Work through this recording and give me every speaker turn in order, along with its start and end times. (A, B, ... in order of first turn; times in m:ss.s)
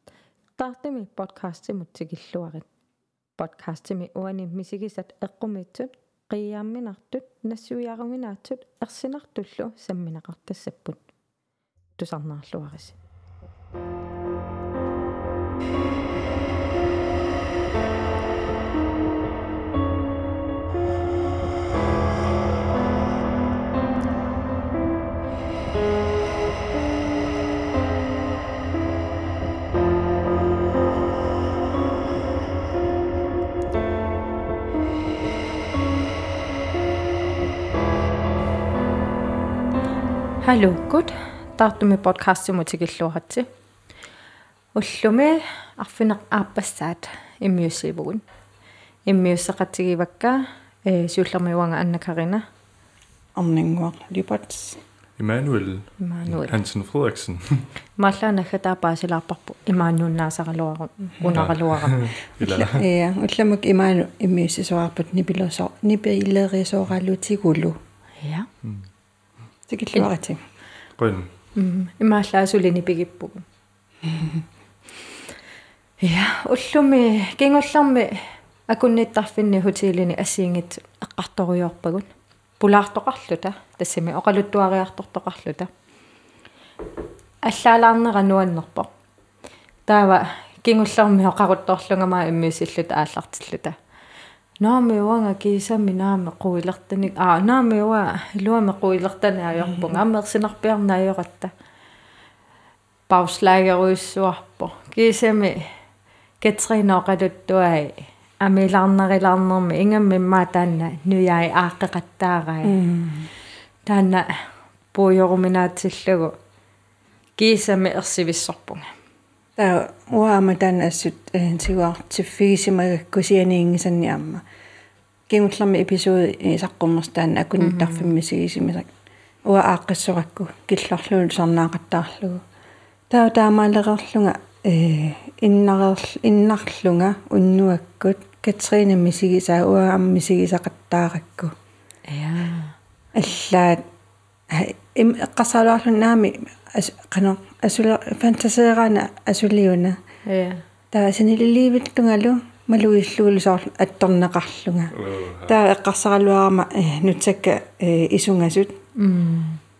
0:00.6-0:02.6 A
0:03.4-0:11.0 A
0:12.0-0:13.0 A
0:40.4-0:43.4 A
0:44.8-0:48.2 A
0:49.1-0:52.4 A
0:53.4-0:54.8 B
0:55.2-0:57.7 C
0:56.0-0:56.5 A
0:58.0-1:02.1 A
1:01.3-1:02.8 C
1:02.4-1:07.8 B
1:08.2-1:08.5 A
1:09.7-1:10.4 B
1:11.0-1:11.3 C
1:11.6-1:13.4 A
1:14.0-1:14.4 B
1:16.0-1:22.1 A
1:22.6-1:25.7 A
1:27.4-1:28.9 A
1:29.9-1:33.8 A
1:34.6-1:41.5 A
1:39.7-1:40.0 B
1:43.1-1:45.6 A
1:46.4-1:52.8 A
1:52.6-1:53.3 B
1:53.9-1:54.3 A
1:54.9-1:56.3 A
1:57.4-1:58.9 A
1:59.6-2:04.4 B
2:05.3-2:08.9 B
2:07.6-2:08.1 A
2:09.4-2:12.4 B
2:13.1-2:21.5 B
2:22.1-2:22.8 A
2:23.1-2:23.8 B
2:24.5-2:30.0 B
2:30.3-2:30.6 A
2:30.9-2:38.7 B
2:35.0-2:35.5 C
2:39.0-2:39.6 A